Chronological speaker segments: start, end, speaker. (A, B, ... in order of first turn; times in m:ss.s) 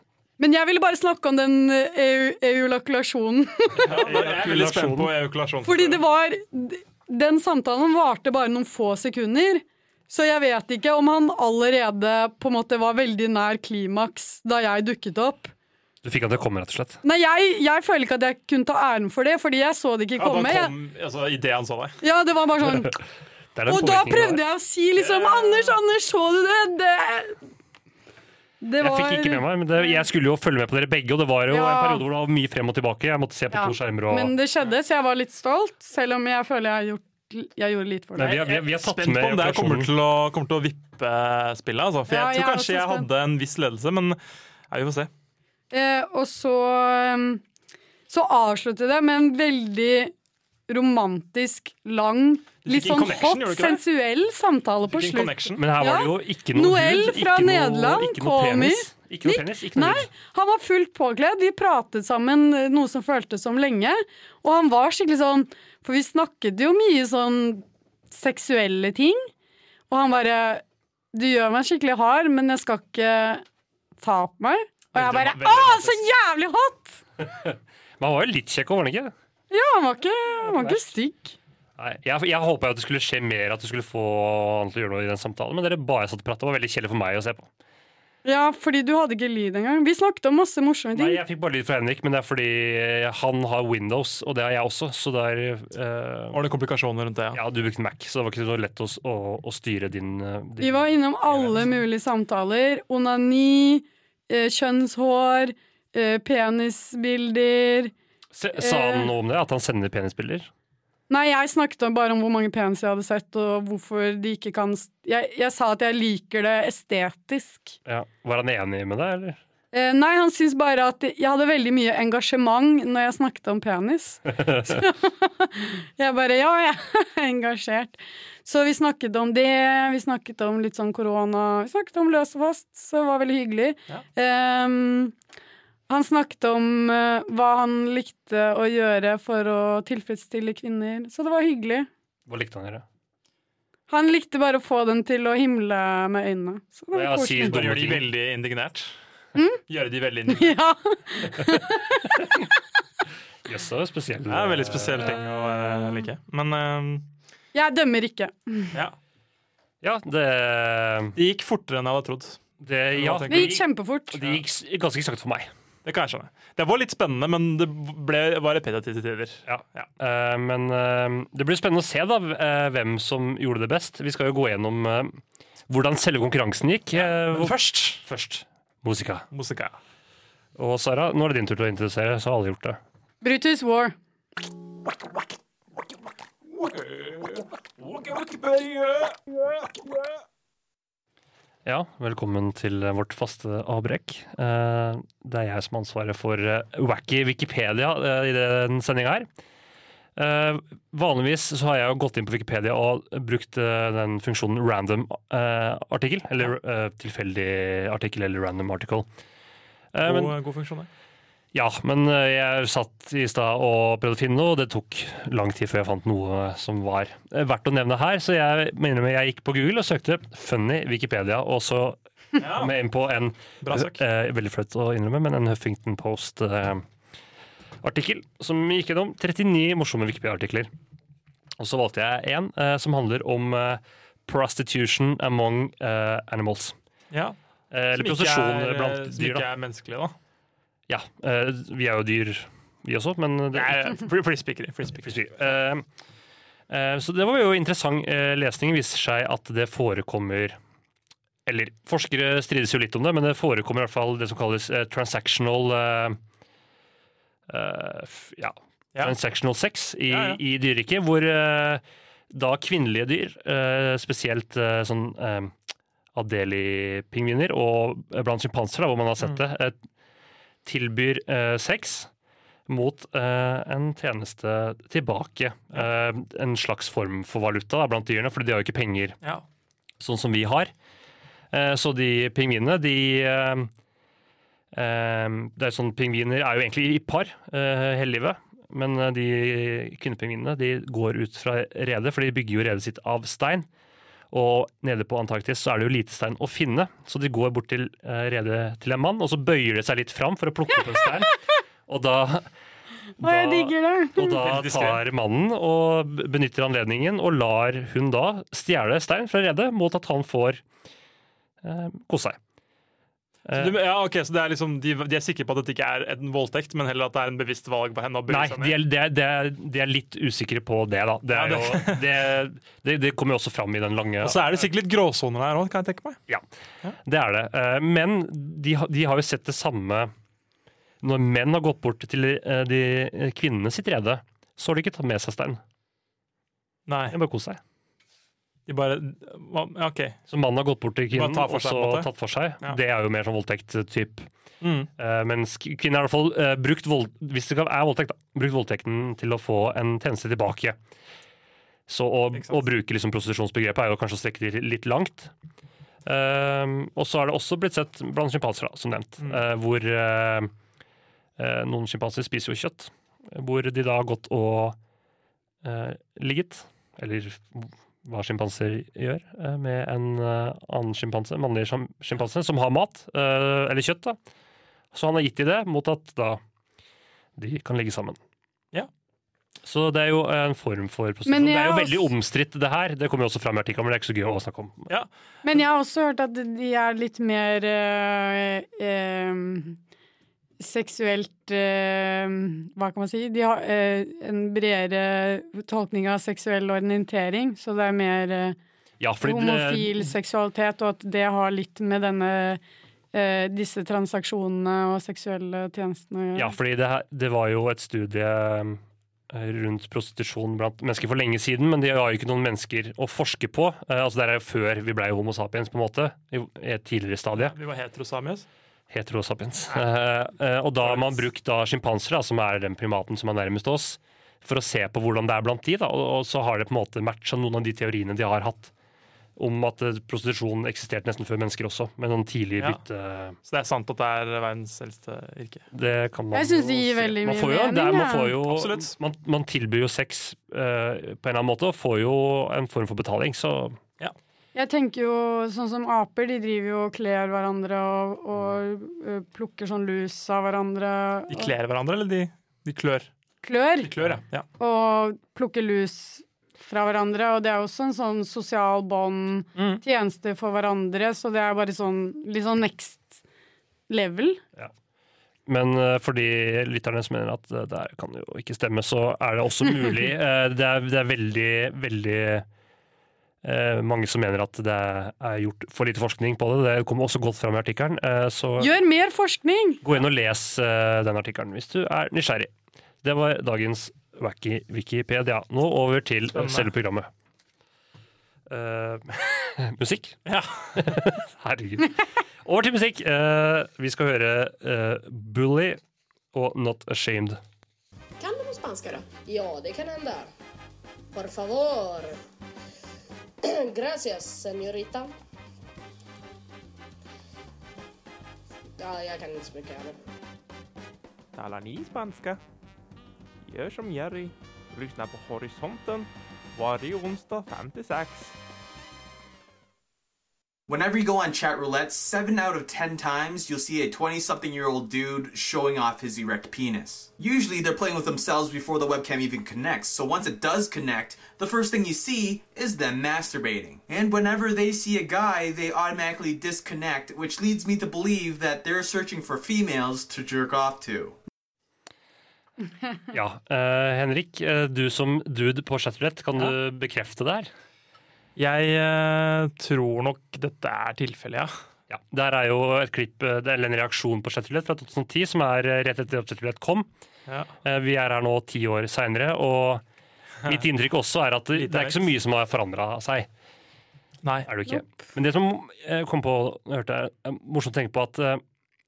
0:00.4-0:04.0 A
0:03.8-0:05.1 B
0:03.8-0:06.0 C
0:05.6-0:15.5 A
0:16.0-0:17.0 B
0:17.0-0:20.7 A
0:20.2-0:22.0 C
0:22.0-0:23.0 A
0:23.6-0:24.4 B
0:23.7-0:27.4 A
0:25.0-0:25.8 C
0:28.6-0:30.0 A
0:28.8-0:34.3 B
0:31.5-0:32.0 A
0:33.5-0:38.4 A
0:38.2-0:39.9 B
0:38.2-0:44.2 C
0:42.1-0:43.1 A
0:44.7-0:45.1 C
0:45.7-0:47.4 A
0:48.1-0:50.1 A
0:50.7-1:09.3 A
0:52.6-0:53.8 C
0:54.9-0:55.6 C
0:55.6-1:00.1 B
1:09.9-1:13.4 A
1:14.0-1:17.0 A
1:14.9-1:16.0 C
1:17.2-1:19.1 B
1:19.5-1:21.4 A
1:20.5-1:20.8 B
1:21.8-1:27.5 B
1:28.2-1:31.2 A
1:31.0-1:36.4 B
1:36.3-1:37.4 C
1:37.3-1:41.7 B
1:40.6-1:47.9 A
1:48.3-1:50.5 B
1:48.6-1:49.1 A
1:51.1-1:57.8 A
1:57.9-1:59.4 B
1:59.7-2:15.2 A
2:04.4-2:04.8 B
2:15.9-2:21.9 A
2:22.3-2:22.8 B
2:23.9-2:27.6 A
2:26.9-2:28.1 B
2:27.4-2:28.9 C
2:29.7-2:30.6 C
2:30.3-2:32.5 A
2:33.5-2:35.2 B
2:34.3-2:37.1 C
2:35.2-2:36.0 A
2:37.5-2:38.8 A
2:39.8-2:41.2 B
2:41.2-2:42.4 C
2:42.6-2:45.5 B
2:42.9-2:43.6 C
2:43.3-2:44.2 A
2:45.8-2:49.9 C
2:49.5-2:59.3 B
2:57.0-2:58.0 C
2:59.3-2:59.8 C
3:00.6-3:02.8 B
3:03.2-3:04.0 A
3:07.9-3:09.0 D
3:11.6-3:19.3 B
3:20.2-3:29.1 B
3:29.9-3:30.4 B
3:30.0-3:30.9 C
3:31.5-3:46.8 B
3:42.4-3:42.7 C
3:43.6-3:44.0 C
3:47.8-3:50.7 B
3:51.6-3:56.8 B
3:57.1-3:57.4 C
3:57.7-3:59.4 B
3:57.9-4:00.2 C
4:00.9-4:04.0 B
4:03.5-4:05.3 C
4:05.0-4:05.9 B
4:06.7-4:10.6 B
4:11.5-4:16.2 B
4:17.5-4:25.5 B
4:20.1-4:20.4 C
4:26.2-4:29.8 B
4:30.6-4:32.1 B
4:32.7-4:39.2 B
4:40.0-4:40.7 B
4:41.5-4:43.7 B
4:44.7-4:53.7 B
4:54.3-5:02.5 B
5:03.2-5:10.6 B
5:03.2-5:04.4 A
5:04.3-5:05.0 C
5:11.6-5:12.4 B
5:13.5-5:13.8 B
5:13.5-5:18.8 C
5:18.3-5:24.6 B
5:21.3-5:22.1 C
5:24.2-5:26.2 C
5:27.0-5:30.1 B
5:31.0-5:35.6 B
5:36.9-5:37.2 C
5:37.1-5:37.6 B
5:38.7-5:40.2 C
5:40.3-5:44.3 B
5:41.1-5:42.1 C
5:44.6-5:44.9 C
5:45.0-5:50.8 B
5:51.9-5:55.3 B
5:52.3-5:52.6 C
5:56.1-6:00.5 B
6:01.4-6:04.8 B
6:05.6-6:14.2 B
6:14.9-6:16.4 B
6:17.4-6:18.2 B
6:19.6-6:24.9 B
6:21.3-6:22.1 A
6:25.4-6:29.8 A
6:30.6-6:38.6 A
6:39.0-6:40.1 B
6:39.2-6:42.6 A
6:43.1-6:46.6 A
6:46.4-6:57.6 B
6:57.3-6:58.5 C
6:58.9-7:08.7 B
7:00.8-7:01.2 C
7:09.4-7:13.4 B
7:13.5-7:15.6 C
7:15.7-7:23.8 B
7:16.3-7:18.4 A
7:18.5-7:19.0 C
7:24.6-7:31.5 A
7:31.3-7:33.1 C
7:33.4-7:33.9 A
7:33.8-7:34.5 C
7:34.6-7:43.2 A
7:39.6-7:39.8 C
7:43.9-7:44.4 A
7:45.5-7:52.5 B
7:53.4-7:58.7 B
7:58.6-7:59.8 A
7:59.8-8:02.5 B
8:03.0-8:07.1 B
8:06.3-8:06.7 C
8:08.5-8:10.2 B
8:10.3-8:10.8 C
8:10.8-8:15.8 B
8:16.3-8:17.4 B
8:18.2-8:20.3 E
8:21.1-8:22.2 E
8:23.4-8:25.1 E
8:28.8-8:30.0 E
8:31.4-8:32.4 D
8:33.5-8:38.3 D
8:40.7-9:01.2 F
9:03.1-9:07.5 B
9:08.4-9:11.5 C
9:11.9-9:16.9 B
9:17.6-9:19.8 B
9:20.4-9:23.3 B
9:21.6-9:22.1 C
9:24.2-9:24.5 C
9:24.5-9:28.4 B